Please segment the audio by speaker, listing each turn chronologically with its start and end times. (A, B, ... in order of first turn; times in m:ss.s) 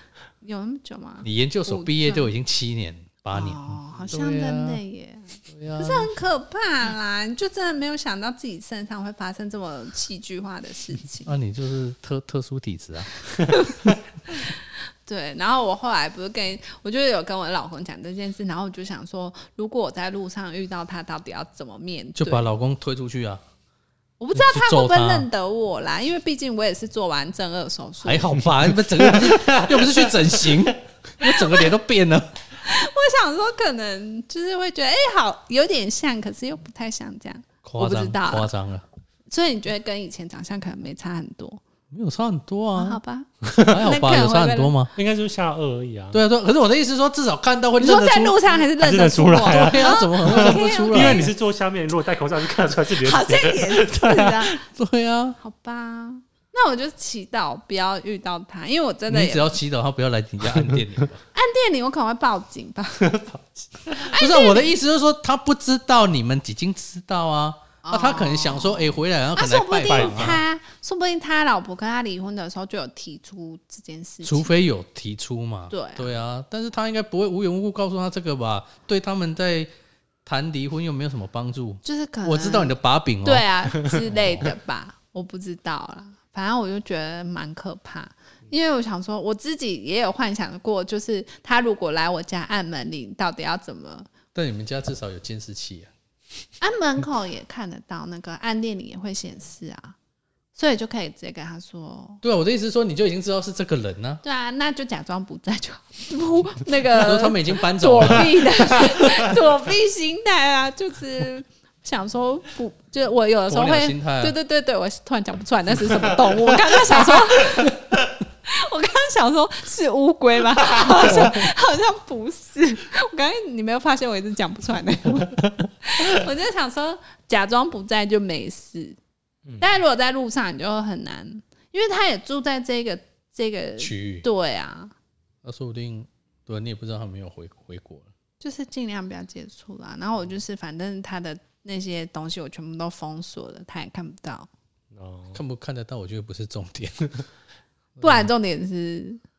0:00.4-0:02.3 A
0:01.2-0:04.8 B
0:03.3-0:11.3 A
0:05.5-0:06.1 B
0:11.3-0:13.3 B
0:13.5-0:22.4 A
0:22.2-0:23.4 B
0:24.2-0:28.5 A
0:24.4-0:25.3 B
0:28.0-0:32.3 B
0:28.9-0:30.6 C
0:31.2-0:31.7 A
0:32.6-0:38.5 A
0:37.6-0:38.8 B
0:39.3-0:41.6 A
0:41.9-0:43.0 B
0:42.8-0:44.7 A
0:43.4-0:43.8 C
0:43.7-0:44.9 B
0:45.0-0:46.2 C
0:46.1-0:48.4 B
0:47.8-0:51.3 A
0:48.8-0:54.4 C
0:49.4-0:51.3 B
0:53.0-0:54.6 A
0:54.6-0:55.4 B
0:55.4-0:59.6 A
0:59.1-1:01.2 B
1:01.3-1:03.1 A
1:03.0-1:04.0 C
1:04.0-1:04.7 A
1:04.1-1:10.4 B
1:07.8-1:14.6 A
1:09.9-1:10.4 C
1:14.2-1:19.7 B
1:15.7-1:16.1 A
1:20.2-1:23.5 B
1:21.8-1:34.1 A
1:34.3-1:35.9 B
1:36.6-1:40.0 A
1:40.6-1:42.2 A
1:42.2-1:44.2 B
1:44.2-1:57.9 A
1:46.9-1:48.9 B
1:53.5-1:54.4 B
1:58.4-2:09.0 A
2:09.6-2:14.9 A
2:13.8-2:14.2 B
2:15.4-2:18.1 B
2:18.4-2:24.5 A
2:24.9-2:25.4 C
2:25.3-2:27.2 B
2:28.0-2:28.3 B
2:28.0-2:29.2 A